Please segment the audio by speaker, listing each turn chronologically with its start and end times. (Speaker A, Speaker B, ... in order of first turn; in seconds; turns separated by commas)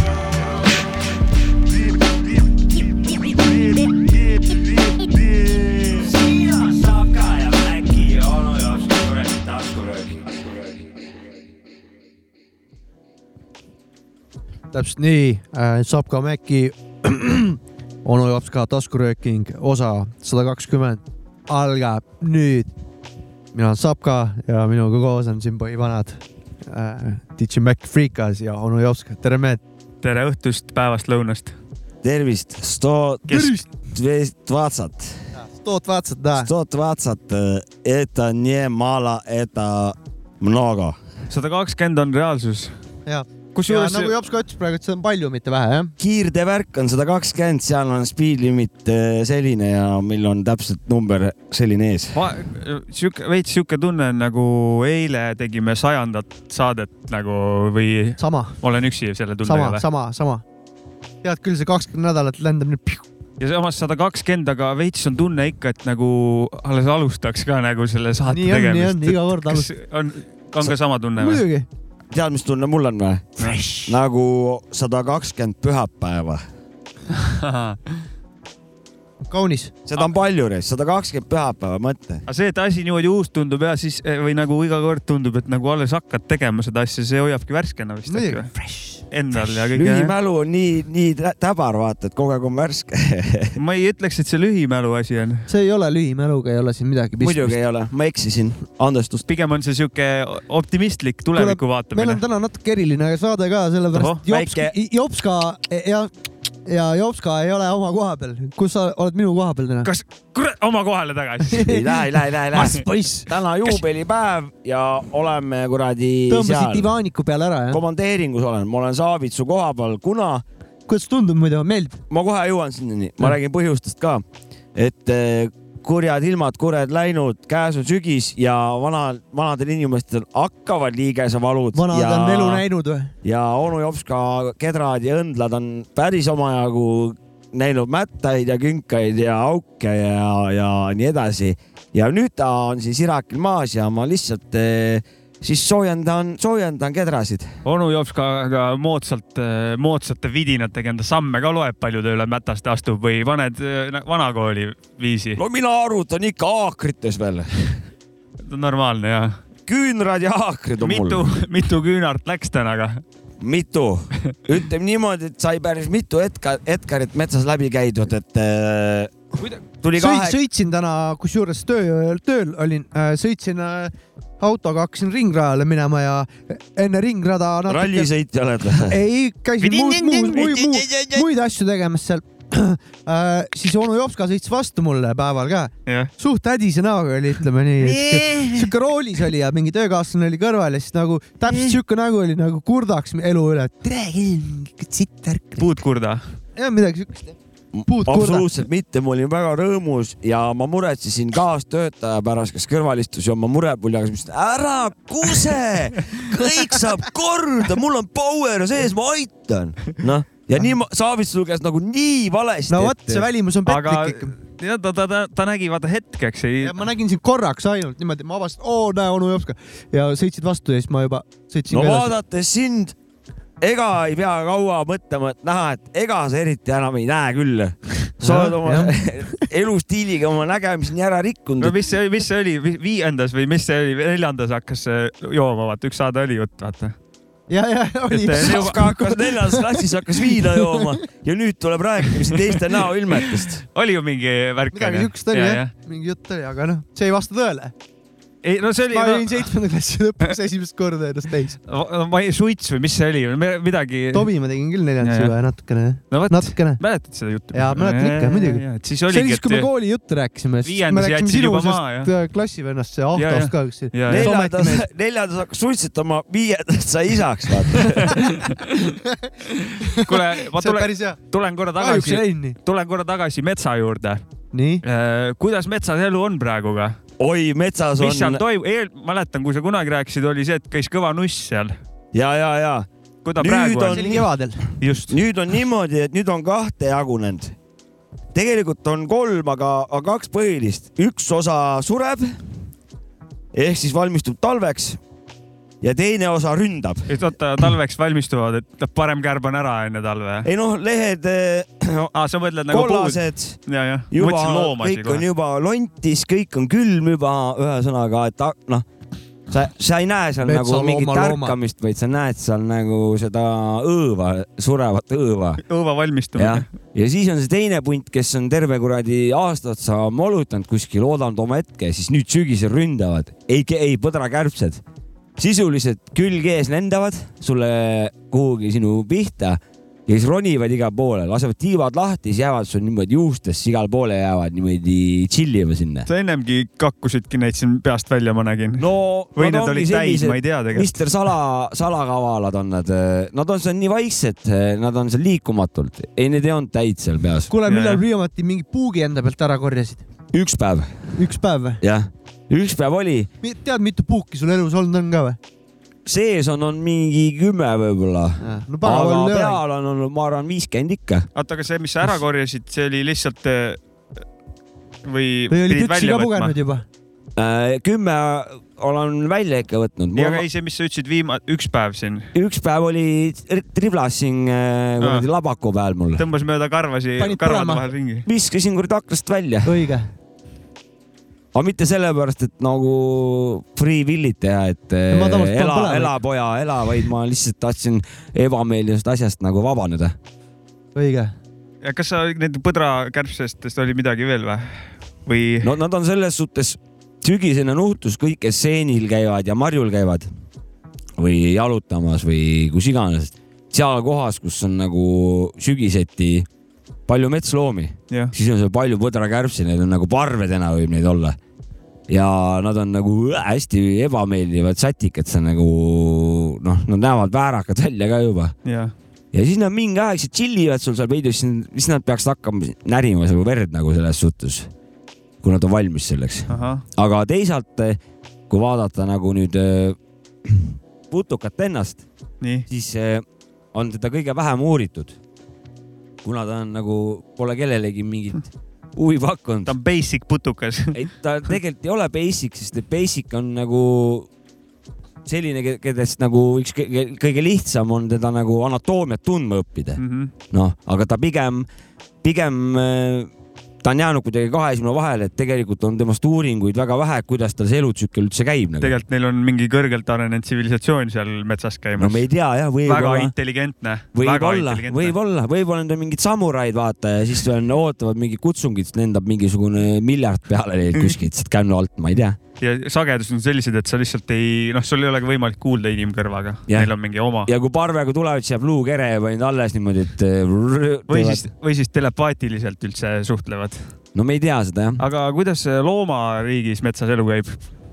Speaker A: 5.2-10.7, Speaker B: 14.7-22.7, Speaker B: 23.5-29.6, Speaker C: 30.0-31.6, Speaker A: 32.0-33.4, Speaker B: 33.3-33.7, Speaker A: 33.9-35.2, Speaker B: 35.4-36.5, Speaker A: 36.4-41.0, Speaker C: 41.3-42.7, Speaker B: 43.1-45.9, Speaker C: 43.5-44.1, Speaker A: 46.0-52.2, Speaker C: 52.1-59.9, Speaker B: 58.2-58.6, Speaker B: 59.4-60.4, Speaker B: 61.2-63.0, Speaker C: 63.4-71.4, Speaker B: 68.3-69.7, Speaker B: 71.2-71.7, Speaker A: 72.1-76.4, Speaker C: 73.4-73.6, Speaker C: 77.1-78.0, Speaker B: 79.3-79.7, Speaker A: 79.9-82.2, Speaker C: 82.3-88.5, Speaker B: 88.1-89.0, Speaker C: 89.1-90.1, Speaker A: 89.6-93.6, Speaker C: 93.6-95.5, Speaker B: 95.5-97.6, Speaker A: 97.2-99.2, Speaker C: 99.3-102.2, Speaker B: 101.4-106.1, Speaker C: 103.9-104.5, Speaker A: 104.3-104.7, Speaker B: 106.7-109.9, Speaker C: 109.8-111.7, Speaker B: 111.5-113.3, Speaker A: 111.6-116.9, Speaker B: 116.3-117.8, Speaker A: 117.7-120.4, Speaker B: 120.9-122.0, Speaker A: 122.1-124.2, Speaker A: 124.8-132.6, Speaker B: 131.7-133.1, Speaker A: 133.2-147.6, Speaker C: 147.7-155.4, Speaker A: 155.4-157.5, Speaker C: 158.4-159.4, Speaker A: 159.7-161.2, Speaker C: 160.8-163.0, Speaker A: 163.4-169.2, Speaker A: 169.8-170.4, Speaker B: 170.0-178.1, Speaker A: 177.7-178.9, Speaker B: 178.9-195.7, Speaker A: 179.6-181.2, Speaker C: 180.1-180.5, Speaker C: 185.9-186.1, Speaker A: 187.8-188.6, Speaker C: 195.6-196.2, Speaker B: 196.6-197.3, Speaker A: 197.7-213.3, Speaker B: 197.9-198.5, Speaker B: 212.7-214.3, Speaker C: 213.7-216.8, Speaker B: 216.6-222.1, Speaker A: 221.7-222.9, Speaker A: 223.6-231.8, Speaker B: 228.2-229.4, Speaker C: 231.6-237.0, Speaker B: 237.5-240.9, Speaker C: 238.1-238.8, Speaker A: 238.4-243.6, Speaker C: 243.7-245.7, Speaker B: 244.7-247.7, Speaker C: 248.4-249.5, Speaker B: 248.9-251.6, Speaker C: 251.7-254.3, Speaker B: 254.1-256.8, Speaker C: 255.0-255.3, Speaker C: 256.1-259.7, Speaker B: 257.5-264.9, Speaker C: 260.6-262.1, Speaker C: 263.1-264.3, Speaker A: 264.1-268.2, Speaker C: 268.0-274.3, Speaker B: 269.9-271.2, Speaker B: 271.8-272.6, Speaker B: 274.5-274.8, Speaker C: 274.8-277.0, Speaker A: 277.2-278.4, Speaker C: 278.0-281.8, Speaker A: 282.1-284.2, Speaker C: 283.2-284.1, Speaker B: 283.9-284.6, Speaker C: 284.8-285.2, Speaker A: 285.1-287.6, Speaker A: 288.3-292.3, Speaker A: 293.5-295.0, Speaker A: 295.8-297.1, Speaker C: 297.1-300.5, Speaker A: 300.4-302.1, Speaker C: 302.1-305.2, Speaker A: 302.7-303.6, Speaker A: 304.1-308.9, Speaker A: 309.5-315.6, Speaker B: 310.4-311.6, Speaker C: 315.6-316.7, Speaker A: 316.4-324.8, Speaker A: 325.4-336.1, Speaker C: 336.1-340.9, Speaker A: 338.8-347.5, Speaker B: 347.5-350.0, Speaker C: 347.7-348.0, Speaker A: 350.3-351.1, Speaker B: 351.1-351.8, Speaker A: 351.8-353.3, Speaker B: 353.4-355.4, Speaker A: 356.1-361.3, Speaker B: 358.4-359.6, Speaker C: 361.4-363.8, Speaker C: 365.0-366.6, Speaker B: 365.5-366.9, Speaker A: 367.4-370.5, Speaker C: 370.1-372.3, Speaker A: 372.3-376.2, Speaker C: 375.0-375.3, Speaker C: 376.2-378.3, Speaker B: 377.2-377.9, Speaker A: 378.3-379.7, Speaker B: 379.7-380.1, Speaker A: 381.5-390.2, Speaker B: 385.1-386.1, Speaker B: 390.9-391.3, Speaker C: 391.8-395.7, Speaker A: 395.6-400.3, Speaker A: 401.2-406.5, Speaker A: 407.1-411.4, Speaker A: 412.1-418.6, Speaker C: 418.6-418.9, Speaker A: 419.3-424.7, Speaker A: 425.4-428.0, Speaker C: 426.5-426.8, Speaker A: 428.5-432.1, Speaker C: 432.4-432.7, Speaker A: 432.7-435.2, Speaker A: 436.2-439.7, Speaker C: 439.7-441.0, Speaker A: 440.9-444.3, Speaker A: 445.2-450.0, Speaker C: 450.0-450.3, Speaker A: 450.5-451.7, Speaker A: 452.2-453.3, Speaker A: 453.8-458.9, Speaker C: 458.8-462.3, Speaker A: 462.0-463.3, Speaker C: 462.9-465.1, Speaker A: 464.1-472.4, Speaker C: 470.9-471.2, Speaker C: 472.6-477.5, Speaker A: 476.7-481.5, Speaker C: 481.1-483.9, Speaker A: 484.1-485.0, Speaker C: 485.0-487.6